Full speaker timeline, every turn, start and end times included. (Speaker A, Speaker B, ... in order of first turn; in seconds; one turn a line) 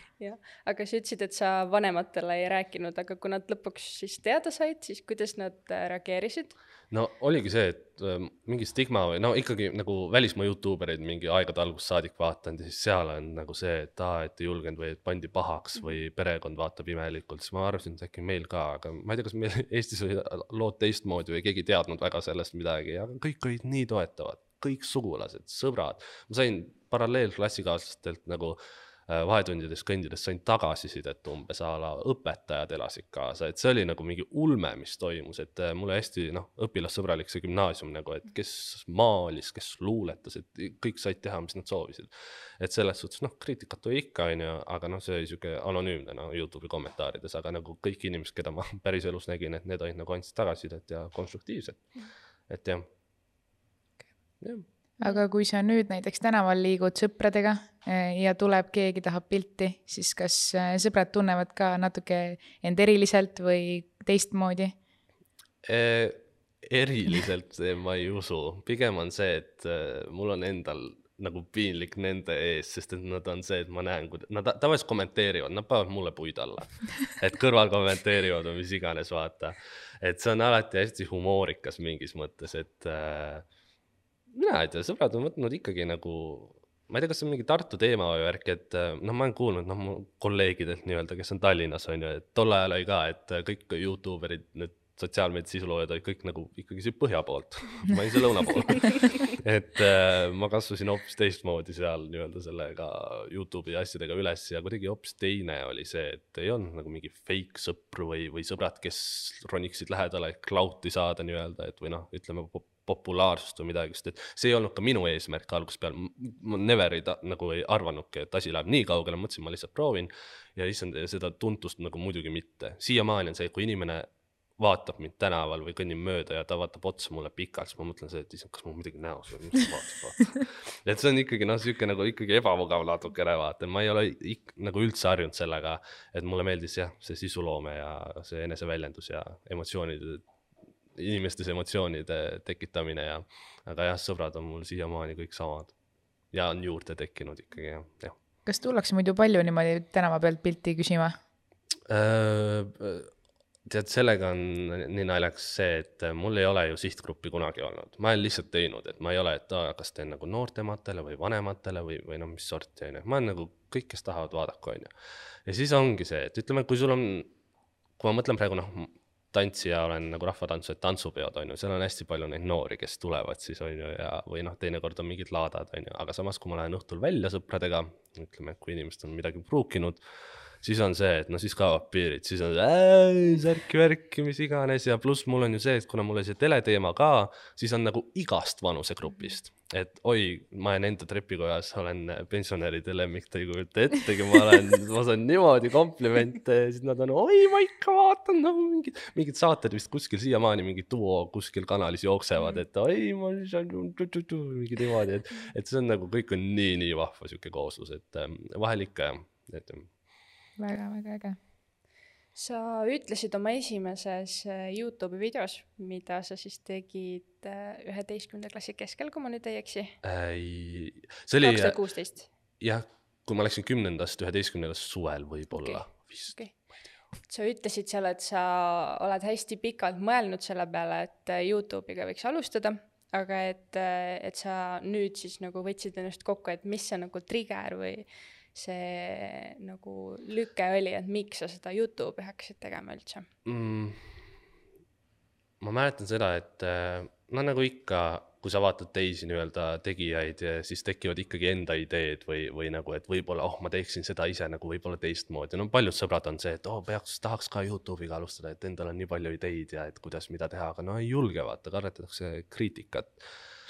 Speaker A: 0.2-6.5
Speaker B: 6.9-51.9
Speaker B: 52.5-52.9
Speaker C: 55.0-64.8
Speaker B: 65.6-83.5
Speaker B: 84.3-140.2
Speaker B: 141.0-145.7
Speaker B: 146.3-148.2
Speaker C: 148.5-151.2
Speaker B: 151.9-153.1
Speaker B: 153.7-164.9
Speaker B: 165.5-167.3
Speaker B: 168.0-180.0
Speaker B: 180.6-209.9
Speaker C: 210.6-211.4
Speaker A: 212.3-220.0
Speaker B: 220.0-221.8
Speaker A: 221.4-222.3
Speaker B: 222.6-226.4
Speaker A: 225.5-226.6
Speaker A: 227.2-243.3
Speaker B: 243.4-244.0
Speaker B: 245.6-263.2